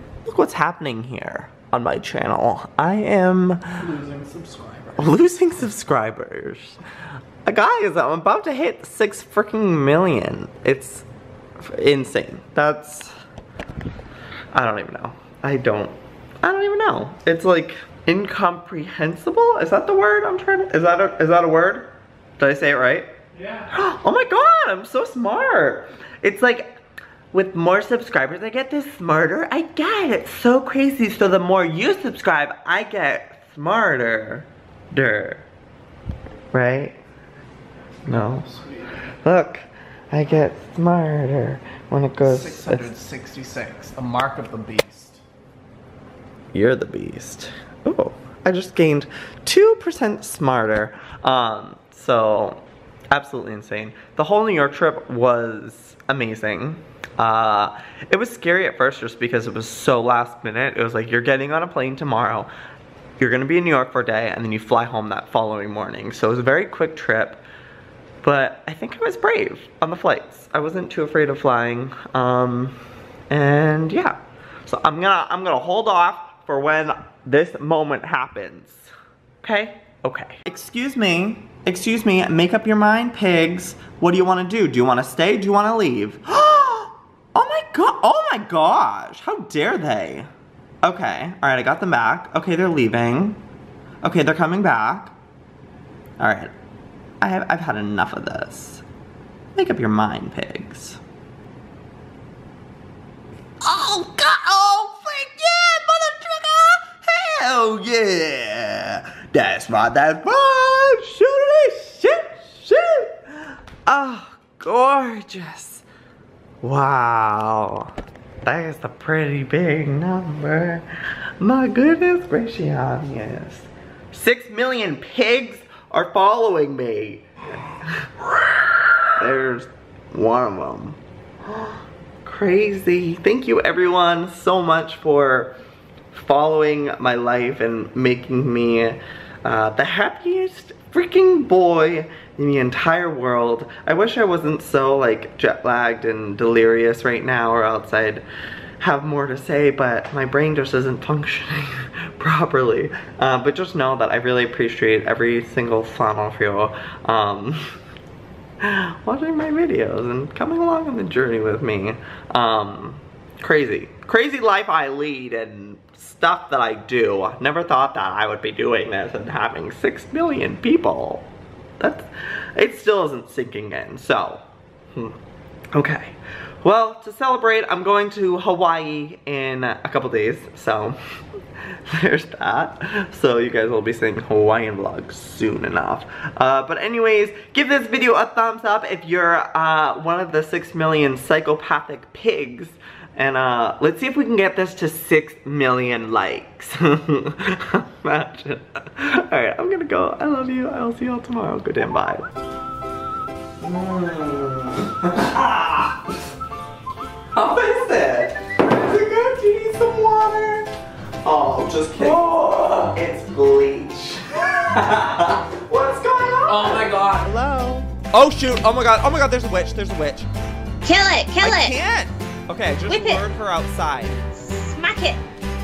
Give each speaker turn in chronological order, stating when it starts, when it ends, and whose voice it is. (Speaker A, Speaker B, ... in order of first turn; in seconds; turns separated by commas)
Speaker A: 0.2-3.9, Speaker B: 3.8-5.1, Speaker A: 5.0-6.8, Speaker A: 7.4-11.1, Speaker A: 11.6-13.1, Speaker A: 14.5-23.1, Speaker A: 23.7-26.8, Speaker A: 27.3-35.5, Speaker A: 36.5-37.0, Speaker A: 38.0-38.5, Speaker A: 39.2-42.9, Speaker B: 42.2-45.2, Speaker A: 46.5-62.5, Speaker A: 63.2-67.4, Speaker A: 68.2-72.8, Speaker A: 73.3-78.9, Speaker A: 79.4-90.3, Speaker A: 90.8-93.4, Speaker A: 94.0-95.1, Speaker A: 96.2-96.5, Speaker A: 97.2-98.8, Speaker A: 99.5-101.0, Speaker A: 103.6-115.8, Speaker A: 116.6-120.9, Speaker A: 121.4-128.2, Speaker A: 129.0-135.5, Speaker A: 136.1-148.2, Speaker A: 148.8-157.6, Speaker A: 158.6-171.3, Speaker A: 171.8-175.2, Speaker A: 175.7-181.0, Speaker A: 181.9-202.2, Speaker A: 203.6-206.1, Speaker A: 207.3-210.7, Speaker A: 211.2-220.3, Speaker B: 216.4-217.3, Speaker C: 220.8-221.7, Speaker A: 221.4-224.2, Speaker C: 222.9-223.2, Speaker C: 224.3-225.2